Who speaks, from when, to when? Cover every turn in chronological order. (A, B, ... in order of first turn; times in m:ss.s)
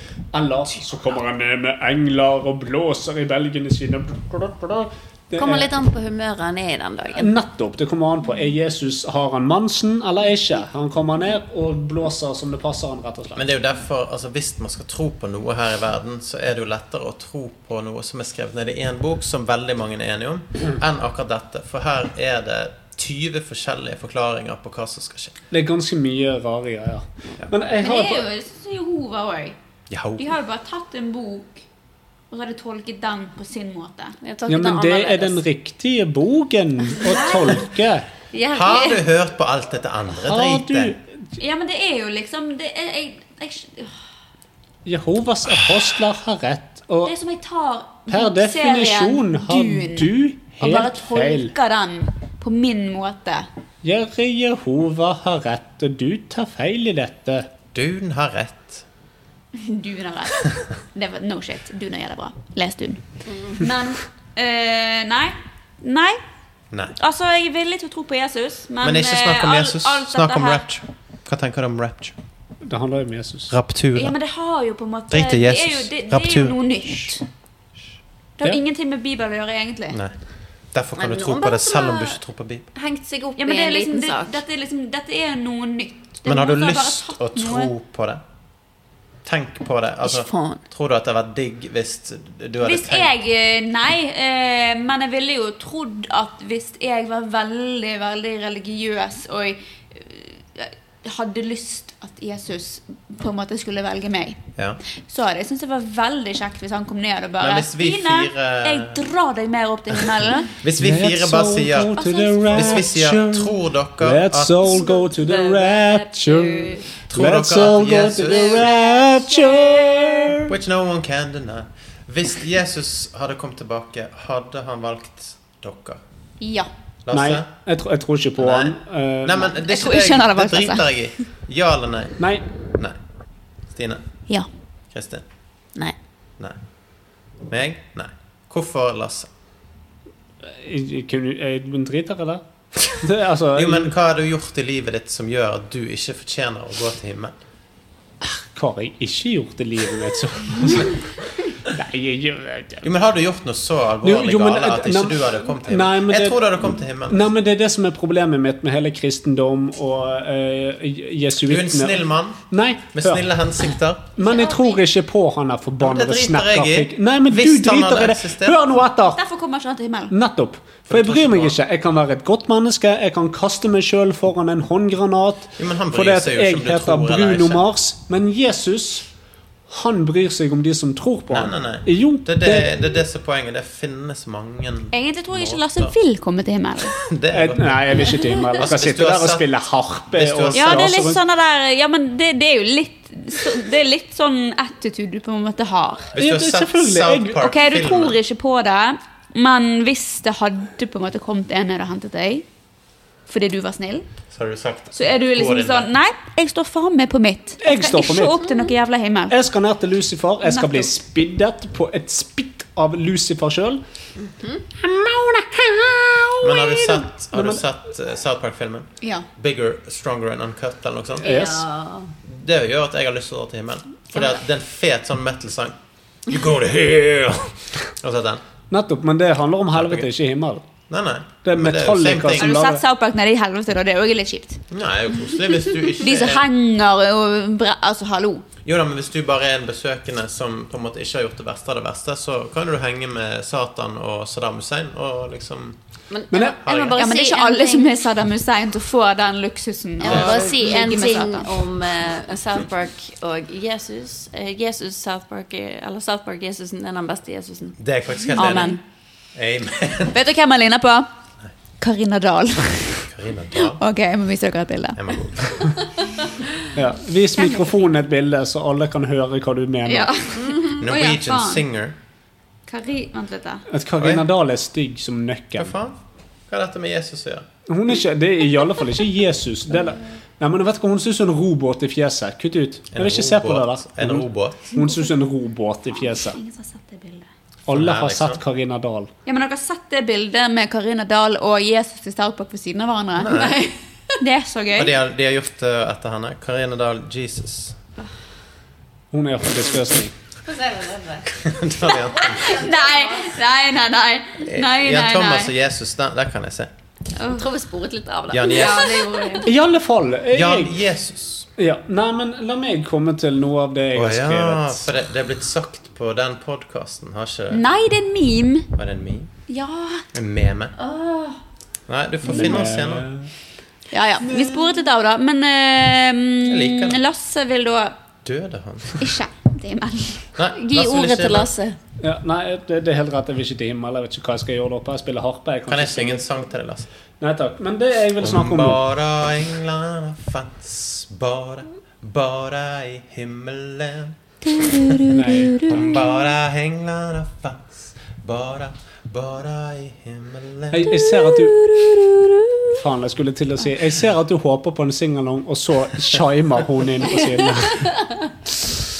0:00.3-0:05.7 A
0:05.4-0:07.3 B
0:07.1-0:13.4 A
0:13.3-0:25.4 C
0:25.5-0:28.2 A
0:27.8-0:29.6 D
0:29.9-0:30.3 C
0:30.2-0:31.6 D
0:32.3-0:34.2 D
0:34.2-0:35.4 B
0:34.5-0:38.0 A
0:37.0-0:37.7 D
0:38.3-0:39.0 B
0:38.5-0:40.9 C
0:40.2-0:41.2 A
0:41.4-0:43.9 D
0:44.8-0:47.1 A
0:47.0-0:53.5 D
0:48.1-0:51.5 A
0:53.8-0:57.5 A
0:57.7-0:58.8 C
0:59.5-1:06.2 D
1:07.0-1:10.6 D
1:08.8-1:12.2 C
1:12.6-1:13.5 A
1:13.5-1:14.2 C
1:13.9-1:17.2 D
1:15.1-1:16.6 C
1:18.4-1:20.0 D
1:19.9-1:20.2 C
1:20.7-1:22.7 C
1:21.0-1:22.2 B
1:22.7-1:24.4 B
1:23.4-1:27.7 D
1:26.2-1:28.2 C
1:29.2-1:33.1 C
1:30.0-1:30.6 B
1:32.6-1:44.4 D
1:45.1-1:50.5 D
1:47.4-1:49.0 C
1:50.6-1:54.8 C
1:50.8-2:00.5 A
1:52.0-1:52.9 D
1:54.7-1:56.8 B
1:57.1-1:58.7 C
1:58.6-2:00.0 D
2:00.5-2:06.0 C
2:06.4-2:06.7 D
2:07.0-2:07.5 C
2:07.1-2:09.5 A
2:08.4-2:12.2 C
2:09.5-2:10.8 D
2:13.7-2:14.0 C
2:14.9-2:15.2 C
2:17.5-2:19.3 C
2:20.4-2:22.4 A
2:22.9-2:23.9 A
2:23.5-2:27.4 C
2:28.2-2:31.0 A
2:31.6-2:32.9 A
2:32.8-2:37.3 C
2:34.0-2:36.5 A
2:37.1-2:43.3 A
2:41.4-2:42.4 C
2:42.9-2:44.1 C
2:44.2-2:49.2 A
2:44.2-2:44.7 D
2:45.8-2:48.6 C
2:49.2-2:50.1 D
2:50.1-2:59.0 A
2:50.9-2:51.6 C
2:55.6-2:57.6 C
2:59.7-3:02.7 A
3:01.3-3:05.9 C
3:04.9-3:07.0 D
3:07.0-3:09.5 C
3:07.3-3:11.2 A
3:10.1-3:11.1 C
3:10.5-3:16.1 D
3:16.1-3:18.2 C
3:16.2-3:17.4 A
3:17.4-3:22.4 D
3:23.3-3:24.0 D
3:24.3-3:25.9 C
3:24.9-3:29.3 D
3:27.6-3:28.4 A
3:29.3-3:33.8 A
3:30.4-3:30.9 D
3:34.2-3:34.6 B
3:34.7-3:37.6 A
3:36.4-3:41.3 C
3:41.2-3:42.1 B
3:41.2-3:41.6 A
3:42.2-3:48.4 C
3:48.7-3:50.6 A
3:49.7-3:50.1 C
3:50.9-3:52.6 C
3:51.4-3:52.8 A
3:52.3-3:54.6 D
3:54.7-3:56.5 C
3:56.0-3:58.4 D
3:58.6-4:05.8 C
4:06.1-4:08.0 B
4:06.6-4:07.0 C
4:07.0-4:11.5 D
4:10.0-4:18.8 B
4:10.0-4:10.8 C
4:17.8-4:18.8 C
4:18.3-4:18.8 D
4:19.3-4:20.2 C
4:20.1-4:21.1 D
4:21.8-4:23.0 D
4:23.0-4:23.8 C
4:23.6-4:25.0 D
4:25.0-4:25.8 C
4:26.7-4:30.1 A
4:27.4-4:27.8 D
4:29.8-4:31.6 D
4:30.8-4:32.0 C
4:32.7-4:33.6 D
4:33.7-4:35.7 A
4:34.0-4:34.3 C
4:35.6-4:37.4 C
4:37.7-4:46.4 A
4:42.9-4:44.7 C
4:44.7-4:45.1 D
4:45.9-4:47.3 D
4:47.6-4:49.1 A
4:47.7-4:48.4 C
4:49.2-4:53.4 D
4:53.2-4:53.6 C
4:53.3-4:53.7 B
4:54.2-4:54.9 D
4:54.7-4:57.8 C
4:59.1-5:00.1 A
5:00.4-5:01.3 B
5:01.3-5:02.6 C
5:02.0-5:03.3 B
5:02.4-5:05.5 D
5:04.4-5:06.7 C
5:07.2-5:07.4 D
5:07.2-5:09.4 B
5:08.3-5:09.0 C
5:08.4-5:09.5 D
5:09.4-5:10.8 A
5:10.3-5:11.5 C
5:11.6-5:14.9 A
5:13.9-5:17.6 C
5:17.5-5:18.7 D
5:18.8-5:19.3 C
5:19.5-5:20.0 D
5:20.1-5:20.7 C
5:20.8-5:21.3 D
5:21.9-5:23.1 C
5:22.2-5:23.3 A
5:23.9-5:28.0 D
5:26.4-5:27.0 C
5:28.2-5:29.1 C
5:29.0-5:30.3 D
5:30.3-5:31.5 C
5:30.6-5:31.8 B
5:32.0-5:36.4 A
5:35.7-5:36.9 C
5:37.2-5:38.8 A
5:38.2-5:45.0 C
5:44.5-5:46.0 D
5:45.1-5:45.7 A
5:45.6-5:50.9 C
5:50.7-5:51.6 A
5:51.2-5:52.6 D
5:52.7-5:57.9 A